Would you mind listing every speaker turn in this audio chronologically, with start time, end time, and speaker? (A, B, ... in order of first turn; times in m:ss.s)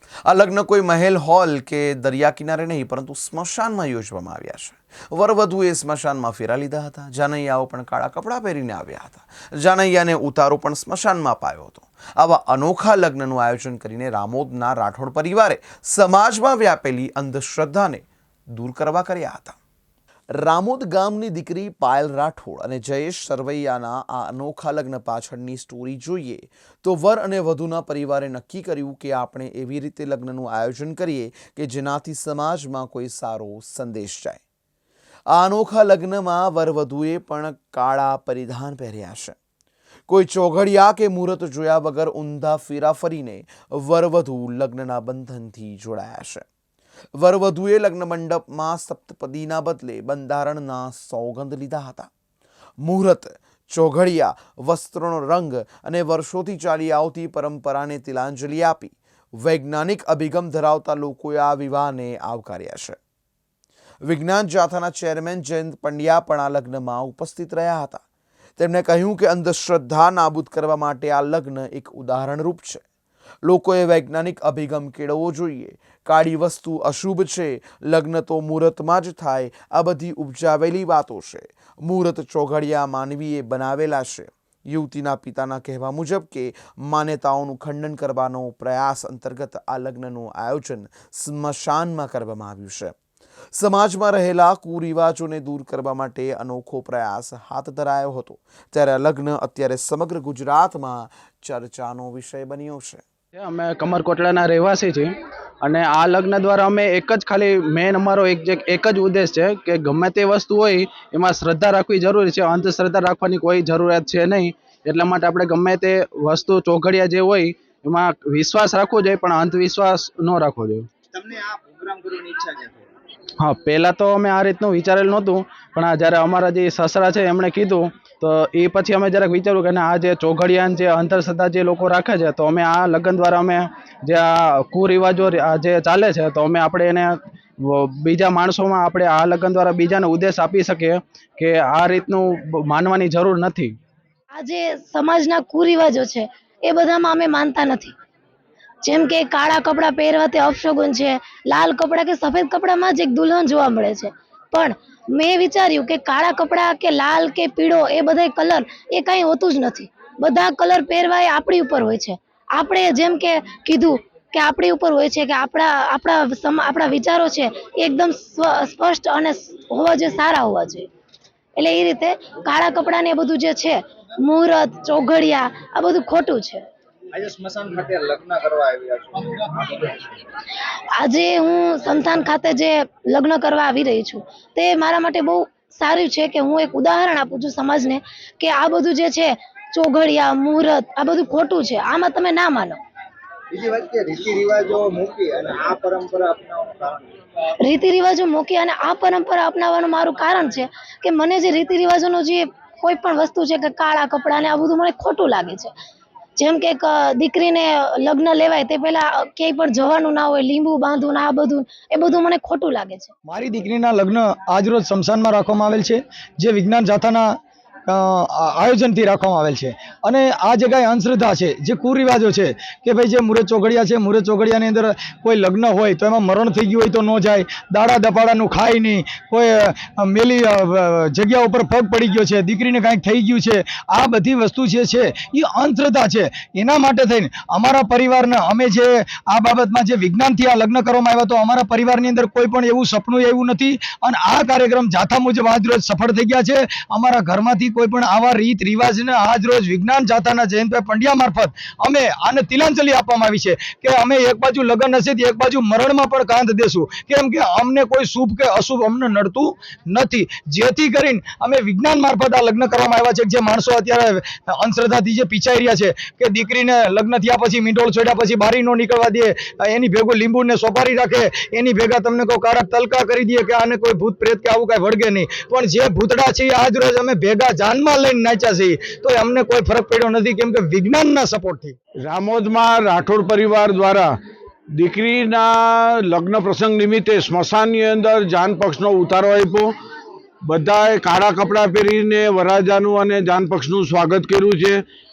0:00.2-0:19.6 A
0:20.4-0:34.4 A
0:35.3-0:39.4 A
0:40.1-0:46.5 A
0:47.2-0:52.1 A
0:52.8-1:03.0 A
1:04.0-1:08.0 A
1:08.6-1:12.8 A
1:13.4-1:33.0 A
1:33.5-1:43.0 A
1:43.4-1:45.1 B
1:45.6-2:00.9 B
2:01.1-2:02.8 C
2:03.4-2:17.1 B
2:17.7-2:23.7 B
2:24.3-2:27.9 D
2:28.8-2:50.9 D
2:51.6-2:56.6 D
2:57.1-3:00.1 C
3:01.0-3:12.8 D
3:13.5-3:17.1 C
3:17.6-3:25.7 D
3:26.4-3:33.1 D
3:33.3-3:37.3 E
3:37.9-4:41.8 E
4:42.0-4:44.1 F
4:44.8-4:49.7 F
4:50.5-4:54.8 F